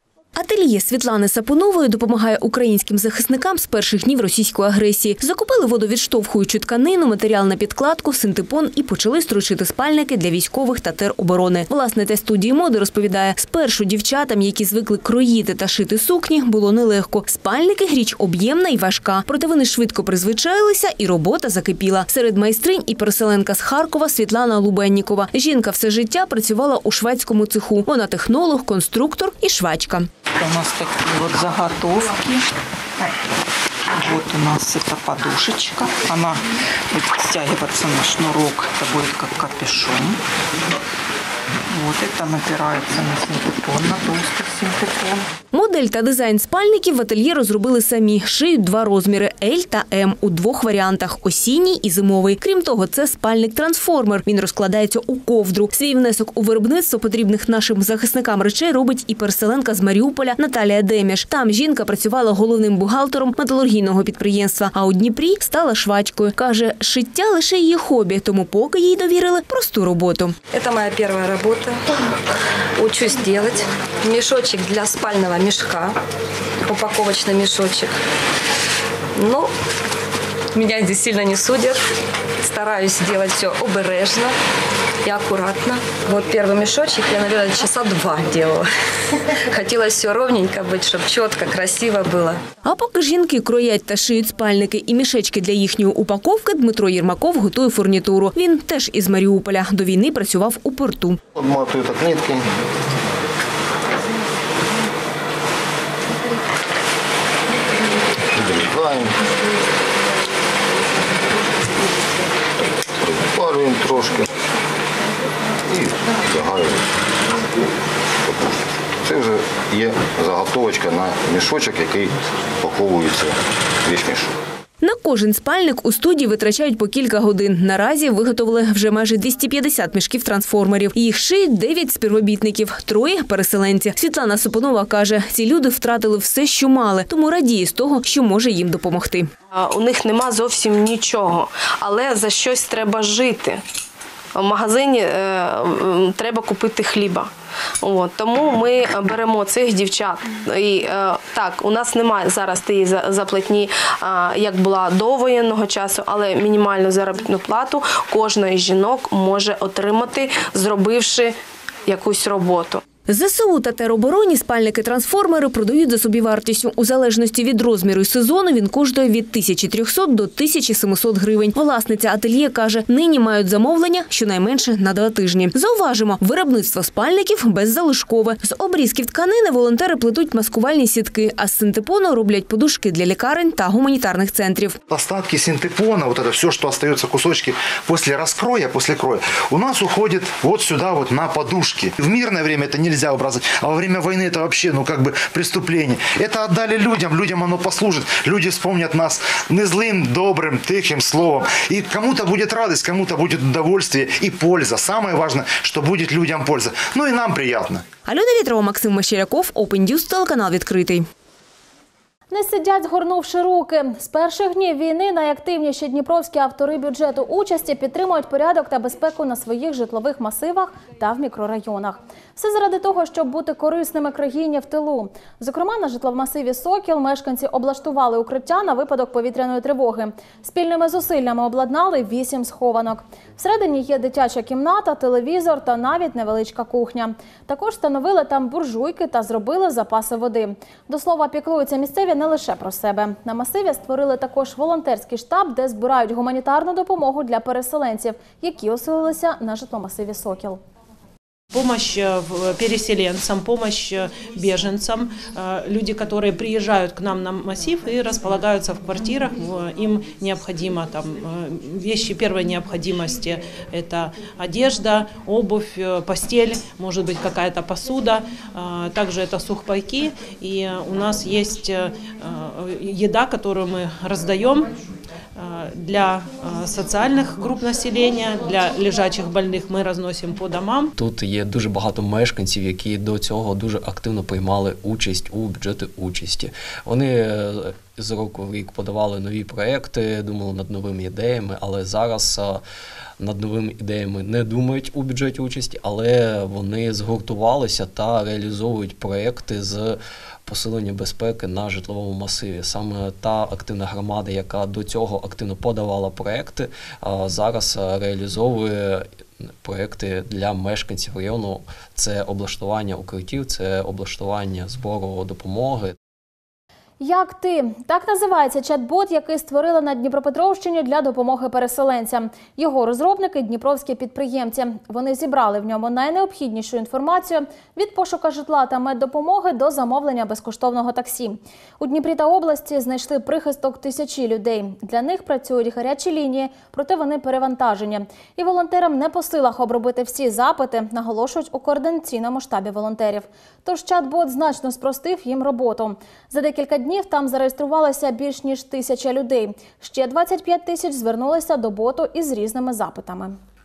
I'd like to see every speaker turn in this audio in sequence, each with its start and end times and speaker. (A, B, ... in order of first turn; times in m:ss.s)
0:00.3-0:30.1 A
0:30.4-0:32.4 B
0:33.9-0:36.4 B
0:36.9-0:40.2 B
0:41.7-0:45.3 B
0:45.5-1:10.3 A
1:10.5-1:11.8 C
1:12.8-1:16.0 C
1:16.6-1:17.9 C
1:19.1-1:19.5 C
1:20.5-1:21.8 C
1:22.4-1:24.4 C
1:25.0-1:28.6 C
1:29.3-1:32.4 C
1:32.6-1:41.2 A
1:41.4-1:42.4 D
1:48.4-1:49.1 D
1:53.0-1:54.3 D
1:55.7-1:56.8 D
1:59.0-2:04.3 D
2:04.8-2:19.3 A
2:19.5-2:23.6 E
2:24.4-2:27.3 E
2:27.8-2:42.8 E
2:43.0-3:04.8 A
3:04.9-3:27.8 F
3:28.0-3:31.0 A
3:32.3-4:10.6 G
4:11.5-4:34.7 H
4:35.4-4:40.9 H
4:41.0-4:52.6 I
4:53.2-5:15.9 I
5:17.0-5:53.4 G